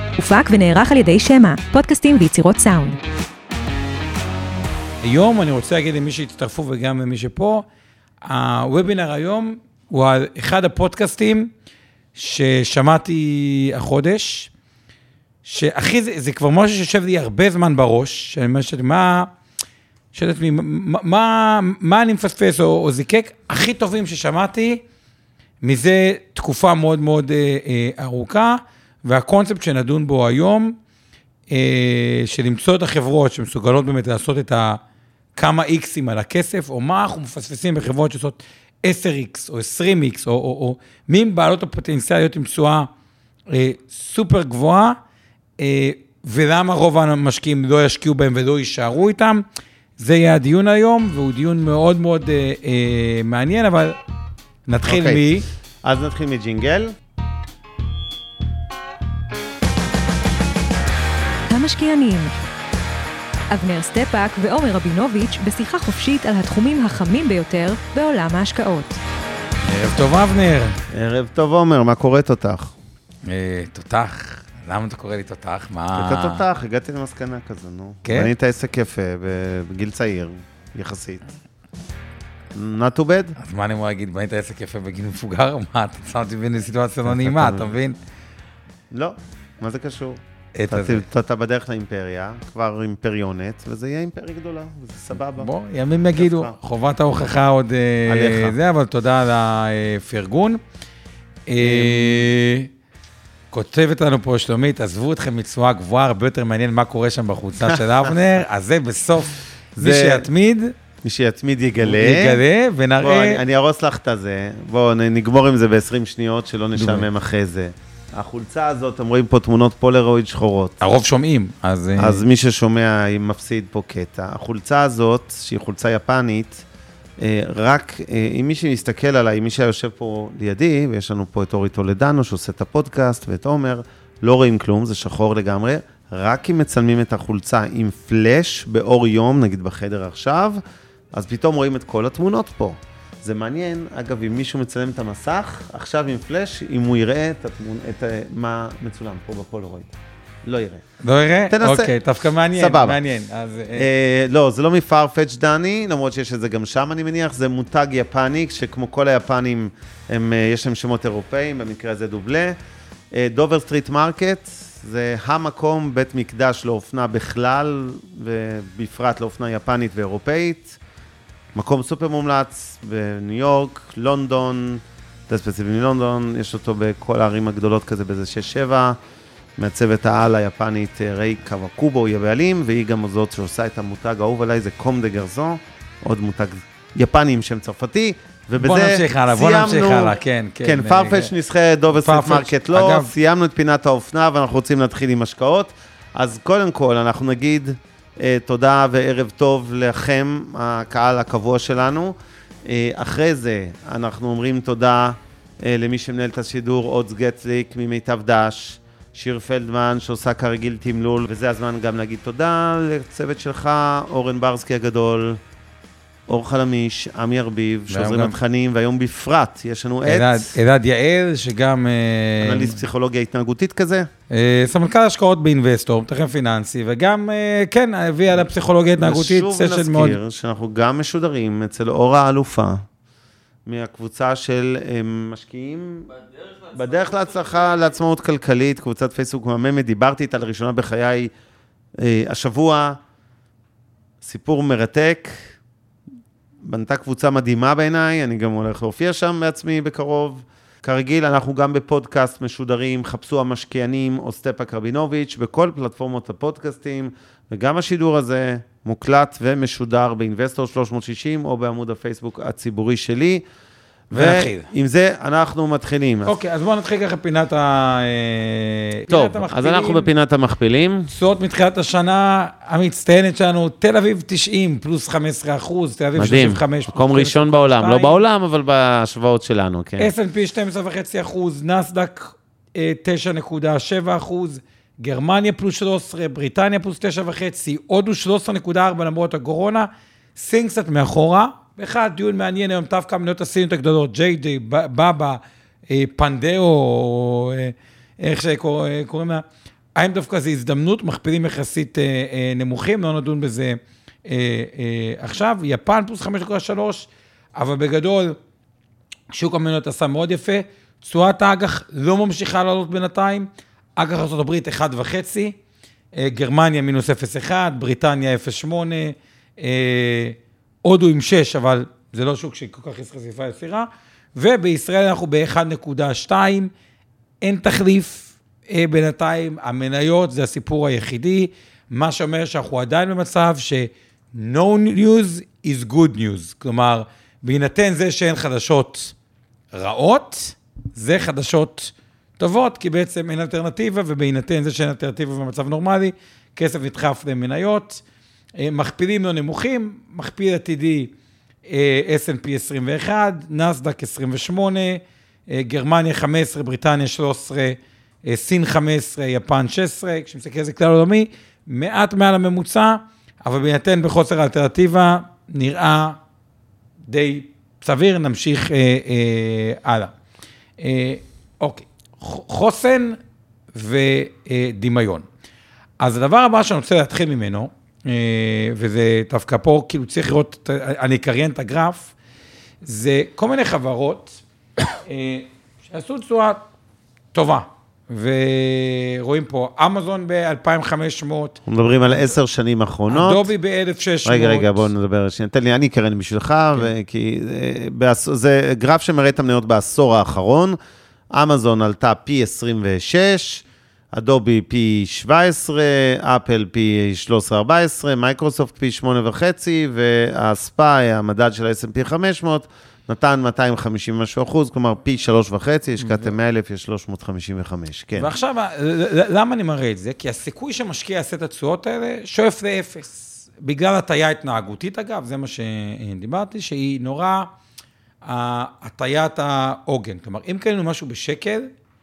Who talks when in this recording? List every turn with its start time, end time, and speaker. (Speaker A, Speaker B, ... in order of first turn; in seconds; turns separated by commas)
Speaker A: 0.2-3.0, Speaker B: 5.0-7.7, Speaker B: 8.2-11.5, Speaker B: 12.2-14.5, Speaker B: 15.4-19.3, Speaker B: 20.1-24.8, Speaker B: 25.6-30.8, Speaker B: 31.5-34.8, Speaker B: 35.4-42.9, Speaker B: 43.5-45.0, Speaker B: 45.6-49.5, Speaker B: 50.0-54.0, Speaker B: 54.7-55.5, Speaker C: 54.9-55.3, Speaker C: 55.8-57.0, Speaker A: 61.5-62.3, Speaker A: 63.5-69.0, Speaker B: 69.6-70.8, Speaker C: 70.9-72.7, Speaker B: 73.3-76.4, Speaker C: 76.0-81.2, Speaker B: 78.0-78.3, Speaker C: 82.5-83.4, Speaker B: 83.4-88.0, Speaker C: 87.1-87.8, Speaker C: 88.9-95.5, Speaker B: 90.5-91.0, Speaker B: 95.4-100.6, Speaker C: 96.2-96.6, Speaker C: 98.1-98.6, Speaker B: 101.5-102.7, Speaker C: 101.6-102.3, Speaker B: 103.5-110.8, Speaker C: 107.7-108.1, Speaker C: 109.8-110.3, Speaker C: 111.0-112.4, Speaker B: 111.8-113.4, Speaker C: 113.0-120.8, Speaker B: 116.8-117.1, Speaker B: 120.8-122.2, Speaker C: 122.0-126.7, Speaker C: 127.2-140.6, Speaker C: 141.1-149.9, Speaker C: 150.4-150.8, Speaker B: 151.0-153.9, Speaker C: 151.5-151.9, Speaker C: 152.5-153.0, Speaker C: 153.8-162.6, Speaker C: 163.1-170.8, Speaker C: 171.5-179.0, Speaker C: 179.6-202.1, Speaker B: 188.6-191.3, Speaker B: 191.9-193.1, Speaker C: 202.7-215.4, Speaker C: 216.3-220.6, Speaker B: 217.9-218.4, Speaker B: 220.1-222.8, Speaker C: 222.4-224.1, Speaker B: 224.3-230.2, Speaker C: 229.0-232.8, Speaker C: 233.7-241.3, Speaker C: 242.0-243.0, Speaker C: 244.2-245.6, Speaker C: 246.6-263.4, Speaker B: 264.1-264.7, Speaker C: 264.1-266.3, Speaker B: 266.3-270.1, Speaker C: 269.1-271.1, Speaker B: 271.1-278.1, Speaker C: 276.2-280.1, Speaker B: 280.0-299.4, Speaker B: 299.9-308.4, Speaker B: 309.3-315.6, Speaker B: 316.1-326.7, Speaker B: 327.4-339.1, Speaker B: 339.7-348.0, Speaker B: 348.6-351.1, Speaker B: 351.7-366.2, Speaker B: 367.1-370.1, Speaker B: 370.8-373.2, Speaker B: 373.7-375.2, Speaker B: 376.0-382.1, Speaker B: 382.8-386.6, Speaker B: 387.3-391.6, Speaker C: 391.7-393.5, Speaker B: 393.1-394.9, Speaker C: 394.2-400.8, Speaker C: 401.3-418.3, Speaker B: 416.0-416.3, Speaker B: 418.2-427.5, Speaker B: 428.2-431.7